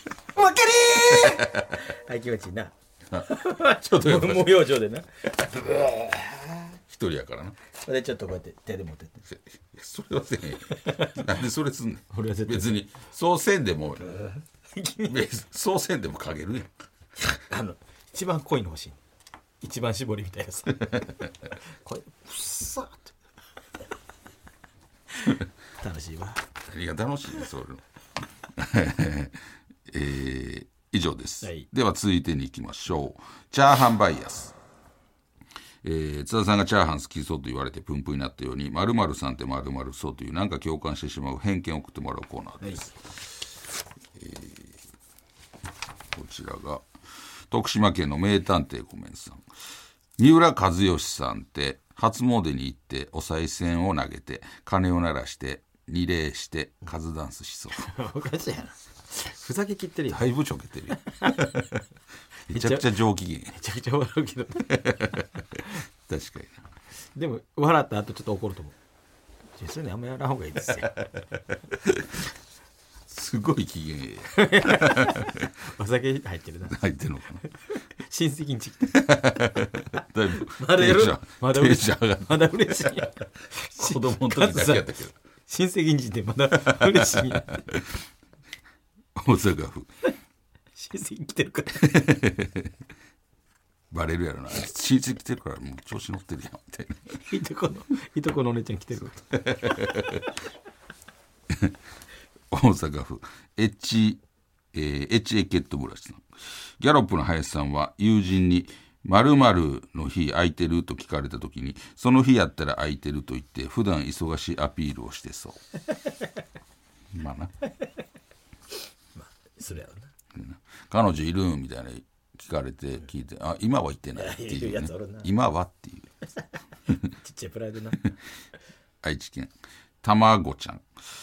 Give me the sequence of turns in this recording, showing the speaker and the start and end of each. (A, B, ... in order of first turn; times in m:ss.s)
0:00.4-0:06.8 A
0:01.1-0:01.7 B
0:03.1-0:04.6 B
0:06.9-0:07.6 B
0:07.8-0:09.2 A
0:09.2-0:14.2 B
0:10.7-0:11.3 A
0:12.1-0:12.8 A
0:14.2-0:15.2 A
0:15.1-0:16.7 B
0:17.2-0:19.0 A
0:19.6-0:23.1 A
0:25.1-0:26.4 A
0:26.6-0:27.8 B
0:28.4-0:34.6 B
0:31.4-0:31.7 A
0:35.8-0:42.9 B
0:44.2-0:44.7 B
0:46.1-0:46.8 B
0:47.5-0:49.4 B
0:50.2-0:57.9 B
0:57.7-1:00.2 A
1:00.1-1:01.7 B
1:00.9-1:01.8 A
1:02.5-1:02.9 A
1:02.5-1:03.6 B
1:03.5-1:05.1 A
1:04.6-1:06.6 B
1:07.2-1:08.7 A
1:09.6-1:11.0 A
1:11.7-1:12.2 B
1:13.1-1:15.4 B
1:14.3-1:16.8 A
1:16.7-1:17.4 B
1:17.4-1:19.1 A
1:18.9-1:23.1 B
1:20.4-1:25.0 A
1:23.7-1:25.1 B
1:25.5-1:27.6 A
1:26.5-1:28.0 B
1:29.1-1:29.9 B
1:30.8-1:32.1 A
1:31.8-1:32.7 B
1:33.9-1:37.2 B
1:37.2-1:39.3 A
1:39.3-1:40.3 B
1:41.5-1:41.8 B
1:42.5-1:44.2 B
1:44.7-1:46.2 B
1:46.8-1:55.6 B
1:57.1-1:57.5 B
1:59.2-2:00.1 A
2:00.3-2:06.1 B
2:04.2-2:05.3 A
2:07.1-2:08.1 A
2:09.0-2:10.8 B